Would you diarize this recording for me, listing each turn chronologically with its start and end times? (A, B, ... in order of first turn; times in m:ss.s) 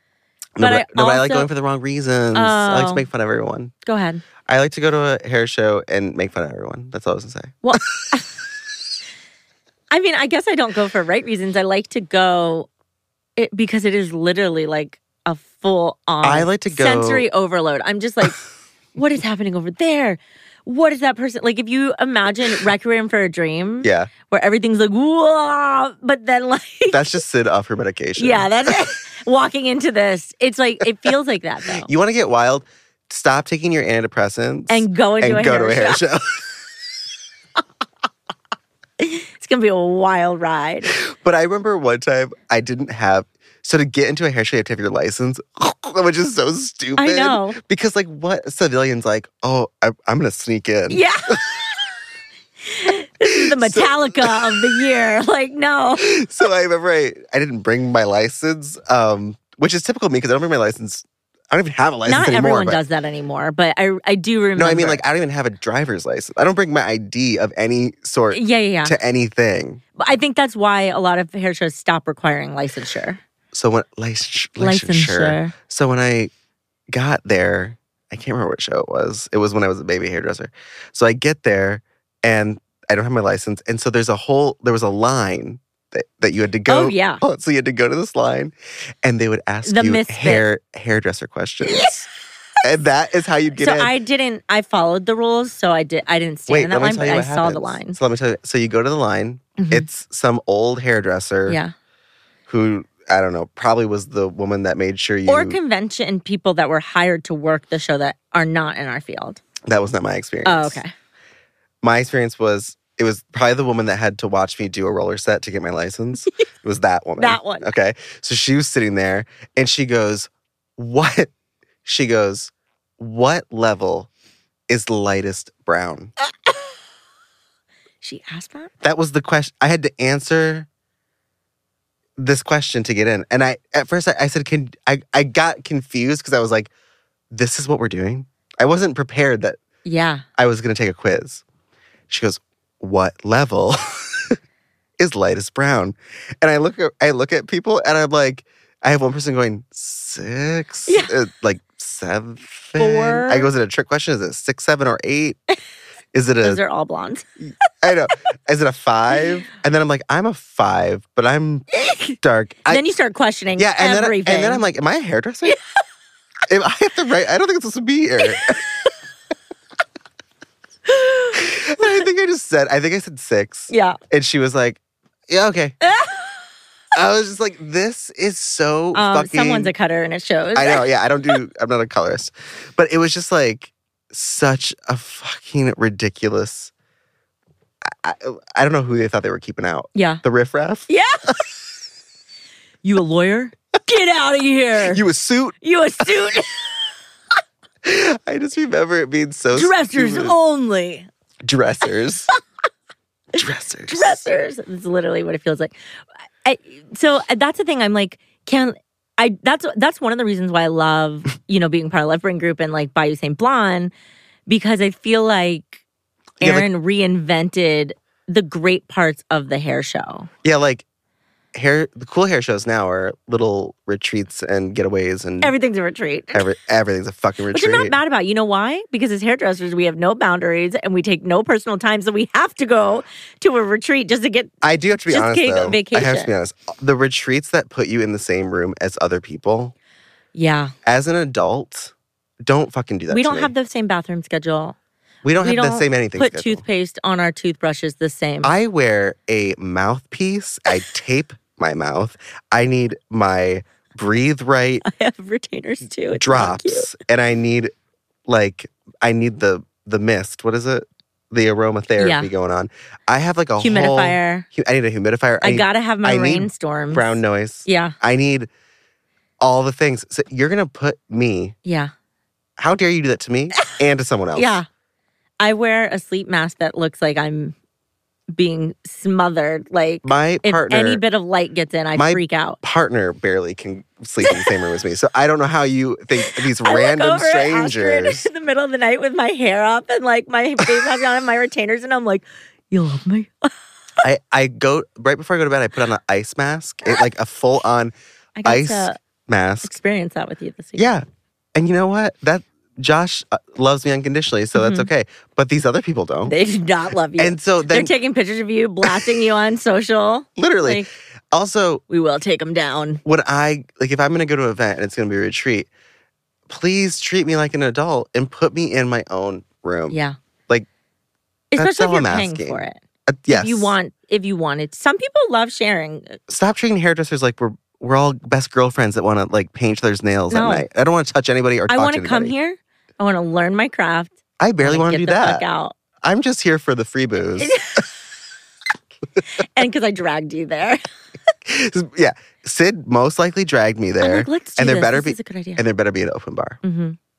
0:00.6-0:03.7 A
0:00.6-0:01.5 B
0:02.3-0:03.1 B
0:03.8-0:04.2 B
0:04.5-0:07.8 A
0:07.6-0:08.3 B
0:09.9-0:12.7 B
0:13.4-0:18.4 B
0:16.2-0:17.2 A
0:18.9-0:27.1 B
0:23.8-0:24.1 A
0:26.9-0:28.8 A
0:28.2-0:31.9 B
0:31.8-0:36.5 A
0:34.7-0:36.0 B
0:39.0-0:40.9 B
0:40.9-0:51.4 A
0:47.0-0:47.6 B
0:50.9-0:51.9 B
0:52.7-0:56.1 B
0:53.3-0:54.6 A
0:56.0-1:02.8 A
1:02.0-1:05.0 B
1:04.6-1:09.8 A
1:08.3-1:09.0 B
1:10.0-1:13.2 B
1:13.5-1:16.3 A
1:14.6-1:15.5 B
1:16.9-1:32.0 A
1:26.6-1:27.2 B
1:29.6-1:30.5 B
1:31.6-1:32.0 B
1:32.6-1:33.9 A
1:33.5-1:38.0 B
1:36.5-1:41.6 A
1:39.6-1:39.9 B
1:41.5-1:41.7 B
1:42.5-1:45.6 A
1:45.3-1:49.4 B
1:49.6-1:50.8 A
1:50.4-1:50.9 B
1:51.8-2:01.3 A
1:57.2-1:57.7 B
2:01.8-2:04.1 A
2:04.7-2:06.1 A
2:08.0-2:08.7 B
2:08.8-2:10.7 A
2:12.2-2:16.7 A
2:17.3-2:19.6 A
2:19.8-2:20.2 B
2:20.4-2:21.4 A
2:22.1-2:24.4 A
2:25.0-2:35.4 A
2:30.9-2:31.1 B
2:32.8-2:33.5 B
2:36.1-2:36.6 A
2:36.4-2:37.2 B
2:37.4-2:42.8 A
2:41.7-2:42.2 B
2:42.7-2:44.6 B
2:43.6-2:45.6 A
2:46.5-2:48.6 A
2:48.2-2:48.9 B
2:50.9-2:52.0 B
2:51.3-2:55.8 A
2:53.7-2:54.0 B
2:55.8-2:56.5 B
2:56.9-2:59.7 A
2:58.9-3:00.9 B
3:00.5-3:06.7 A
3:07.8-3:10.9 A
3:09.9-3:10.2 B
3:10.9-3:11.3 B
3:12.8-3:15.0 B
3:14.9-3:15.6 A
3:15.6-3:16.7 B
3:17.8-3:20.3 A
3:19.5-3:21.1 B
3:21.4-3:22.3 A
3:23.3-3:24.2 A
3:23.9-3:25.8 B
3:26.4-3:33.9 B
3:34.5-3:35.8 B
3:36.4-3:36.7 A
3:36.4-3:40.3 B
3:40.4-3:40.8 A
3:41.5-3:45.5 A
3:45.4-3:46.5 B
3:46.3-3:48.0 A
3:47.5-3:54.5 B
3:54.6-3:59.7 A
3:55.1-3:56.3 B
4:00.3-4:00.7 B
4:00.8-4:01.9 A
4:02.4-4:03.5 A
4:03.1-4:04.8 B
4:05.2-4:06.6 A
4:05.4-4:08.5 B
4:08.4-4:14.8 A
4:14.8-4:16.9 B
4:16.1-4:17.7 A
4:18.3-4:28.5 A
4:22.0-4:22.3 B
4:23.6-4:24.4 B
4:25.4-4:27.9 B
4:29.4-4:31.5 A
4:31.6-4:31.9 B
4:32.6-4:34.6 A
4:34.3-4:34.6 B
4:35.4-4:37.5 B
4:38.3-4:42.6 B
4:40.0-4:41.0 A
4:41.9-4:48.3 A
4:44.2-4:44.5 B
4:46.2-4:54.0 B
4:54.0-4:57.9 A
4:58.4-4:59.0 B
4:58.4-4:59.7 A
4:59.6-5:01.0 B
5:00.8-5:01.0 A
5:01.5-5:06.3 A
5:04.5-5:04.9 B
5:06.2-5:10.9 B
5:07.2-5:07.9 A
5:10.4-5:11.8 A
5:11.9-5:13.0 B
5:13.0-5:15.7 A
5:16.5-5:20.0 A
5:19.9-5:20.2 B
5:21.5-5:26.2 B
5:21.6-5:23.8 A
5:26.3-5:32.3 A
5:30.3-5:30.6 B
5:31.7-5:35.8 B
5:34.4-5:35.4 A
5:36.0-5:37.5 A
5:37.4-5:38.0 B
5:39.3-5:40.8 B
5:41.5-5:46.6 A
5:44.0-5:45.6 B
5:46.6-5:47.0 B